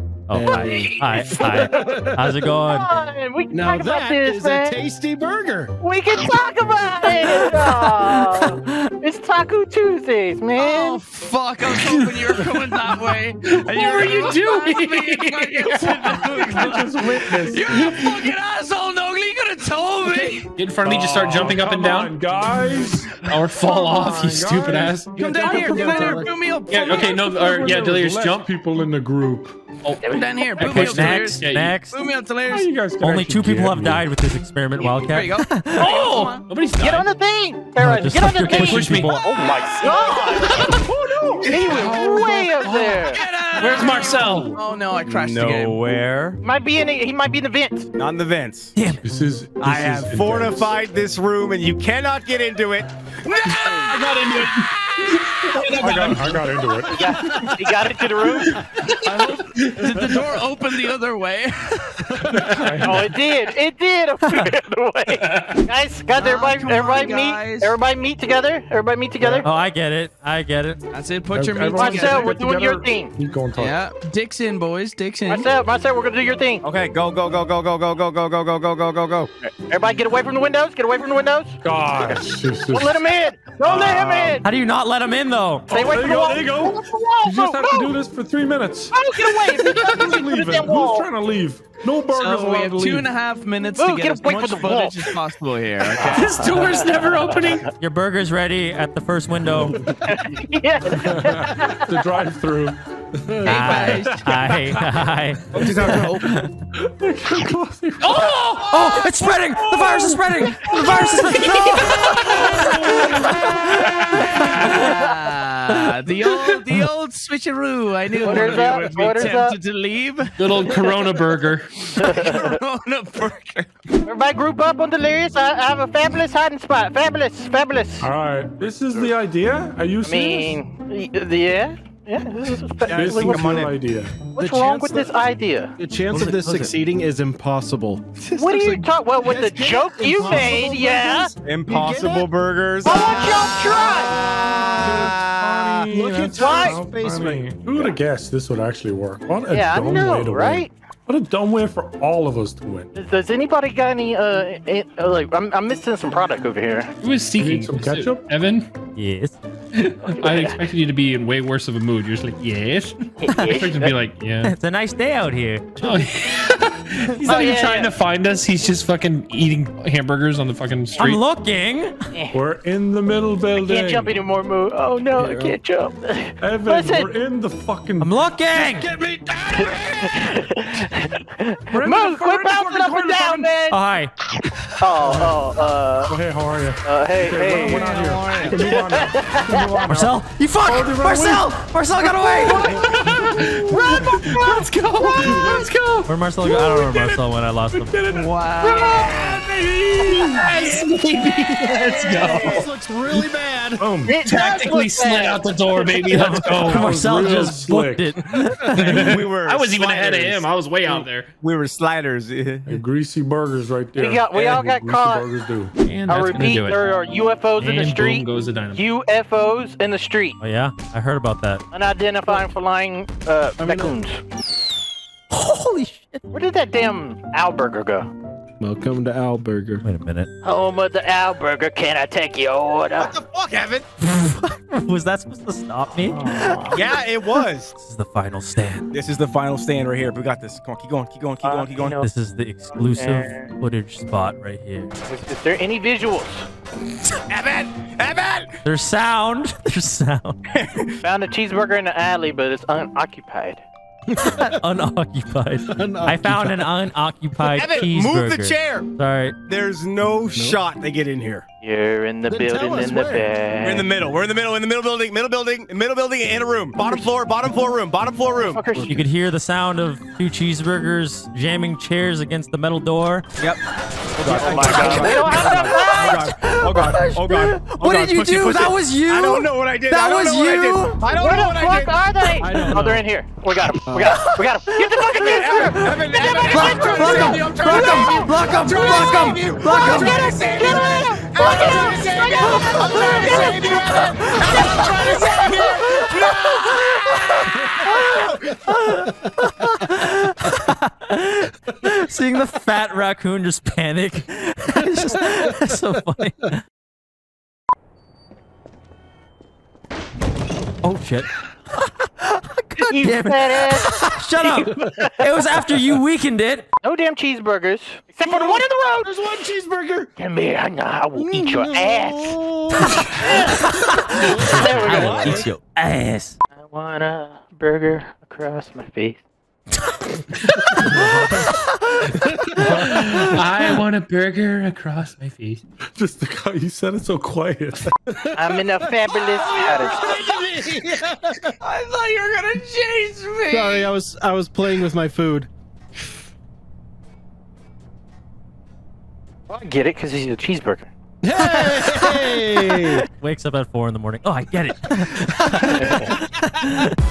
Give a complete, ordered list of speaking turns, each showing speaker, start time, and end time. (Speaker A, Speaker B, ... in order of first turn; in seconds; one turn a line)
Speaker A: 0.3-2.8
Speaker B: 0.3-2.1
Speaker C: 0.5-2.0
Speaker C: 2.6-4.8
Speaker B: 3.5-5.7
Speaker C: 5.8-11.0
Speaker A: 7.8-8.6
Speaker D: 10.6-20.5
Speaker E: 11.8-12.0
Speaker E: 13.7-15.9
Speaker F: 15.9-18.0
Speaker E: 20.6-22.1
Speaker F: 20.8-26.2
Speaker E: 23.2-25.1
Speaker B: 25.1-26.4
Speaker D: 25.1-27.2
Speaker E: 26.7-28.5
Speaker F: 27.1-29.6
Speaker E: 29.8-30.1
Speaker C: 30.0-30.8
Speaker D: 30.0-32.7
Speaker E: 30.6-31.8
Speaker A: 30.6-31.9
Speaker F: 32.5-34.1
Speaker A: 33.0-35.9
Speaker D: 34.7-37.0
Speaker C: 35.8-36.3
Speaker E: 35.9-37.0
Speaker C: 36.8-40.8
Speaker A: 37.8-39.2
Speaker E: 38.6-39.1
Speaker D: 39.1-40.0
Speaker E: 40.5-40.8
Speaker D: 41.2-41.9
Speaker C: 41.4-43.2
Speaker F: 41.5-43.0
Speaker D: 42.8-45.8
Speaker E: 43.5-44.6
Speaker G: 45.1-46.4
Speaker C: 46.4-47.9
Speaker G: 47.9-48.8
Speaker F: 49.0-50.7
Speaker G: 49.6-53.5
Speaker D: 53.2-55.1
Speaker E: 53.6-56.3
Speaker F: 55.7-57.0
Speaker C: 56.9-58.6
Speaker D: 59.0-63.1
Speaker F: 62.3-63.1
Speaker C: 62.8-69.5
Speaker D: 66.1-67.8
Speaker F: 69.2-69.5
Speaker A: 69.4-70.8
Speaker D: 70.9-72.3
Speaker F: 71.3-73.8
Speaker C: 71.8-73.1
Speaker D: 73.5-75.5
Speaker C: 75.3-76.6
Speaker G: 76.6-79.3
Speaker C: 79.4-84.4
Speaker F: 81.6-83.0
Speaker F: 83.7-84.3
Speaker A: 84.3-85.7
Speaker F: 85.7-93.2
Speaker C: 85.7-87.9
Speaker C: 88.9-91.1
Speaker D: 92.1-96.4
Speaker C: 93.8-95.2
Speaker C: 96.0-97.5
Speaker E: 96.1-97.7
Speaker A: 97.8-99.8
Speaker C: 99.8-101.9
Speaker F: 100.9-105.0
Speaker D: 103.4-104.6
Speaker A: 103.5-106.5
Speaker F: 105.5-105.8
Speaker B: 105.6-105.8
Speaker D: 105.6-106.0
Speaker F: 106.3-108.6
Speaker E: 108.0-109.4
Speaker A: 108.7-114.5
Speaker F: 109.1-114.2
Speaker E: 111.3-112.5
Speaker D: 112.2-113.5
Speaker D: 114.1-121.2
Speaker C: 118.2-119.6
Speaker E: 120.4-121.7
Speaker D: 121.8-123.7
Speaker C: 122.0-122.5
Speaker C: 124.0-128.1
Speaker F: 128.0-130.6
Speaker C: 130.0-133.5
Speaker B: 132.9-133.5
Speaker F: 132.9-134.1
Speaker G: 133.0-133.7
Speaker C: 134.3-135.8
Speaker B: 134.3-135.1
Speaker B: 135.8-138.0
Speaker G: 136.1-136.7
Speaker F: 136.1-136.4
Speaker C: 138.3-141.3
Speaker G: 138.4-138.8
Speaker B: 139.2-142.3
Speaker G: 141.4-145.9
Speaker C: 142.8-144.2
Speaker B: 143.0-145.2
Speaker F: 144.8-152.9
Speaker B: 145.9-147.9
Speaker C: 146.3-146.8
Speaker C: 149.5-150.7
Speaker C: 152.9-156.9
Speaker E: 157.0-158.7
Speaker F: 157.4-158.3
Speaker A: 158.9-159.3
Speaker E: 159.7-162.9
Speaker C: 160.1-160.6
Speaker C: 163.2-163.9
Speaker A: 163.3-163.6
Speaker E: 163.5-164.5
Speaker A: 164.4-165.7
Speaker E: 165.8-171.2
Speaker C: 167.3-167.9
Speaker A: 171.0-171.9
Speaker F: 172.3-174.2
Speaker C: 173.6-177.1
Speaker B: 175.2-175.6
Speaker F: 176.4-178.2
Speaker A: 178.0-178.9
Speaker B: 178.5-180.2
Speaker C: 179.5-183.8
Speaker F: 181.7-183.5
Speaker A: 183.7-184.1
Speaker C: 184.8-186.1
Speaker F: 185.0-185.3
Speaker F: 186.1-194.4
Speaker C: 186.8-190.0
Speaker D: 187.4-188.6
Speaker A: 189.9-192.7
Speaker D: 192.5-193.3
Speaker E: 192.8-196.1
Speaker D: 194.5-195.6
Speaker F: 195.2-195.7
Speaker A: 196.1-197.9
Speaker F: 196.4-200.7
Speaker D: 198.1-199.4
Speaker E: 200.0-203.3
Speaker B: 201.9-203.9
Speaker C: 201.9-202.7
Speaker F: 203.8-204.2
Speaker C: 204.1-206.2
Speaker E: 204.2-207.6
Speaker A: 206.2-208.8
Speaker F: 206.4-208.3
Speaker E: 208.7-211.3
Speaker G: 208.8-212.8
Speaker F: 212.7-215.7
Speaker C: 214.0-215.2
Speaker E: 214.3-214.6
Speaker E: 215.8-216.8
Speaker C: 216.1-220.4
Speaker E: 217.6-218.8
Speaker A: 220.4-221.6
Speaker C: 221.7-224.2
Speaker B: 223.6-224.0
Speaker A: 225.3-226.2
Speaker C: 226.3-228.1
Speaker B: 228.6-229.8
Speaker A: 229.8-230.3
Speaker C: 230.4-233.1
Speaker G: 233.0-233.8
Speaker A: 234.0-236.7
Speaker C: 236.1-236.8
Speaker G: 236.7-237.7
Speaker A: 237.8-238.8
Speaker G: 238.9-242.0
Speaker C: 241.4-242.1
Speaker A: 242.0-244.9
Speaker C: 242.7-243.5
Speaker C: 245.1-246.4
Speaker G: 247.3-248.5
Speaker A: 248.6-250.3
Speaker G: 250.5-251.0
Speaker C: 251.0-253.6
Speaker A: 254.2-259.4
Speaker B: 255.7-256.7
Speaker G: 257.5-258.9
Speaker G: 259.4-261.4
Speaker B: 260.3-260.6
Speaker C: 261.6-263.9
Speaker B: 262.3-263.3
Speaker G: 263.6-268.6
Speaker C: 268.5-269.0
Speaker B: 268.7-269.0
Speaker A: 268.9-273.2
Speaker G: 274.2-282.0
Speaker C: 274.2-276.3
Speaker B: 274.3-275.6
Speaker A: 275.6-281.0
Speaker C: 281.1-288.3
Speaker B: 282.4-283.0
Speaker B: 283.9-284.1
Speaker A: 284.1-285.0
Speaker G: 285.1-298.3
Speaker A: 285.7-290.3
Speaker C: 288.9-294.0
Speaker D: 293.2-293.6
Speaker A: 293.8-294.4
Speaker A: 295.8-306.6
Speaker A: 310.8-316.7
Speaker C: 312.8-315.3
Speaker C: 316.8-319.1
Speaker B: 318.2-320.1
Speaker C: 320.2-322.4
Speaker B: 321.2-322.9
Speaker C: 323.1-323.7
Speaker A: 323.6-326.4
Speaker B: 324.3-325.4
Speaker C: 324.4-325.4
Speaker F: 324.9-325.5
Speaker C: 326.5-329.2
Speaker F: 332.6-333.5
Speaker E: 332.8-335.6
Speaker F: 335.9-337.9
Speaker C: 338.3-340.1
Speaker D: 339.1-340.7
Speaker B: 339.9-341.5
Speaker D: 341.6-343.9
Speaker B: 343.5-345.5
Speaker C: 349.5-350.9
Speaker B: 351.2-353.0
Speaker A: 351.4-356.9
Speaker C: 355.8-356.1